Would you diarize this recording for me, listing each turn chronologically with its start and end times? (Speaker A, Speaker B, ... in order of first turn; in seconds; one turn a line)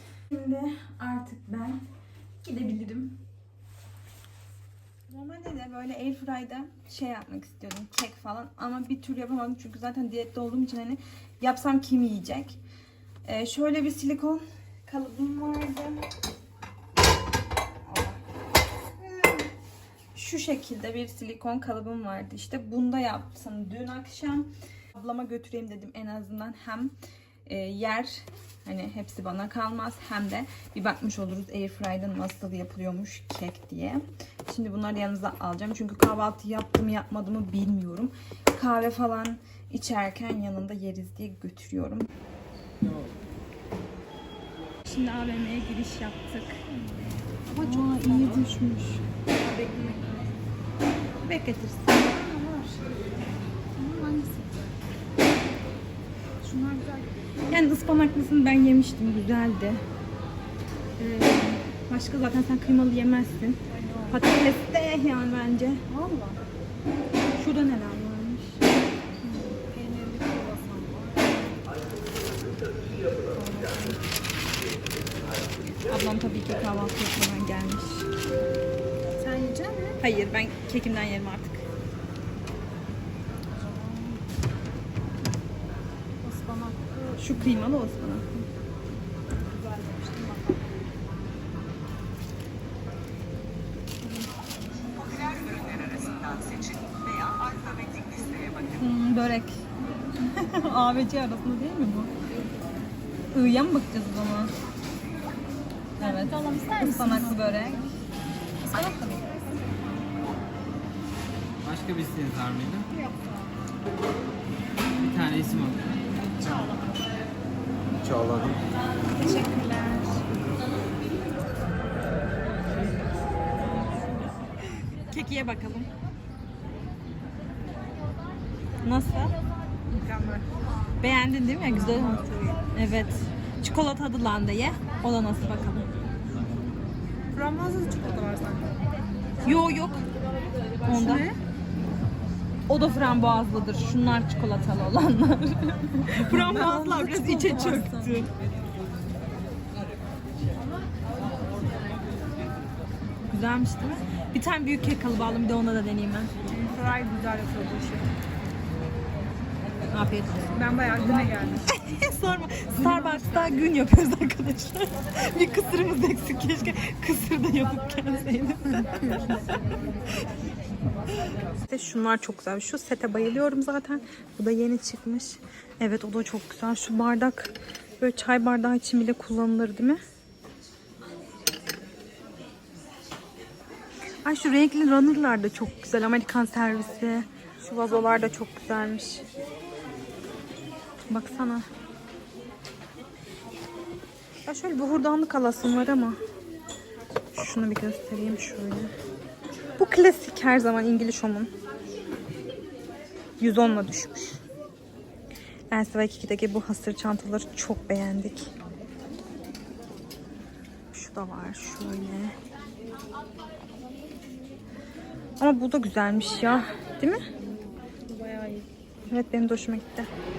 Speaker A: 0.3-1.8
Speaker A: 2.4-3.2
Speaker A: 5.1-12.6
Speaker A: 13.2-16.0
Speaker A: 17.8-18.2
Speaker A: 19.0-19.5
Speaker A: 20.1-26.9
Speaker A: 27.5-42.1
Speaker A: 44.9-46.7
Speaker A: 47.5-49.0
Speaker B: 47.6-48.1
Speaker B: 49.4-50.4
Speaker A: 51.2-53.0
Speaker B: 53.8-54.7
Speaker A: 56.4-57.0
Speaker A: 57.5-59.8
Speaker A: 61.0-66.3
Speaker B: 63.7-64.2
Speaker A: 67.4-68.6
Speaker A: 69.2-69.6
Speaker B: 69.6-71.4
Speaker A: 73.3-74.0
Speaker A: 75.8-78.1
Speaker B: 79.2-79.9
Speaker A: 79.8-81.7
Speaker B: 83.6-84.2
Speaker B: 86.2-87.2
Speaker A: 87.2-88.5
Speaker B: 89.5-90.8
Speaker B: 95.2-96.3
Speaker A: 98.7-99.6
Speaker A: 100.2-102.1
Speaker A: 103.3-104.5
Speaker A: 106.0-107.9
Speaker B: 106.0-107.8
Speaker B: 108.7-109.3
Speaker C: 111.6-112.9
Speaker C: 115.0-115.8
Speaker A: 119.1-120.2
Speaker A: 125.0-125.9
Speaker A: 128.8-129.3
Speaker B: 129.9-130.5
Speaker A: 131.0-135.9
Speaker B: 131.7-132.6
Speaker B: 137.3-138.8
Speaker A: 139.4-140.1
Speaker A: 140.8-141.2
Speaker B: 140.9-141.4
Speaker A: 142.7-148.3
Speaker B: 146.2-148.2
Speaker A: 153.2-156.4
Speaker B: 156.4-158.1
Speaker A: 160.0-160.3
Speaker B: 160.2-161.7
Speaker A: 161.6-169.4
Speaker A: 171.6-180.0
Speaker A: 184.2-189.3
Speaker A: 191.1-191.7
Speaker A: 194.4-196.2
Speaker A: 197.3-198.9
Speaker A: 199.8-201.5
Speaker A: 203.4-204.4
Speaker A: 205.7-208.5
Speaker A: 210.9-212.3
Speaker A: 215.4-217.2
Speaker B: 218.1-218.7
Speaker A: 219.1-220.1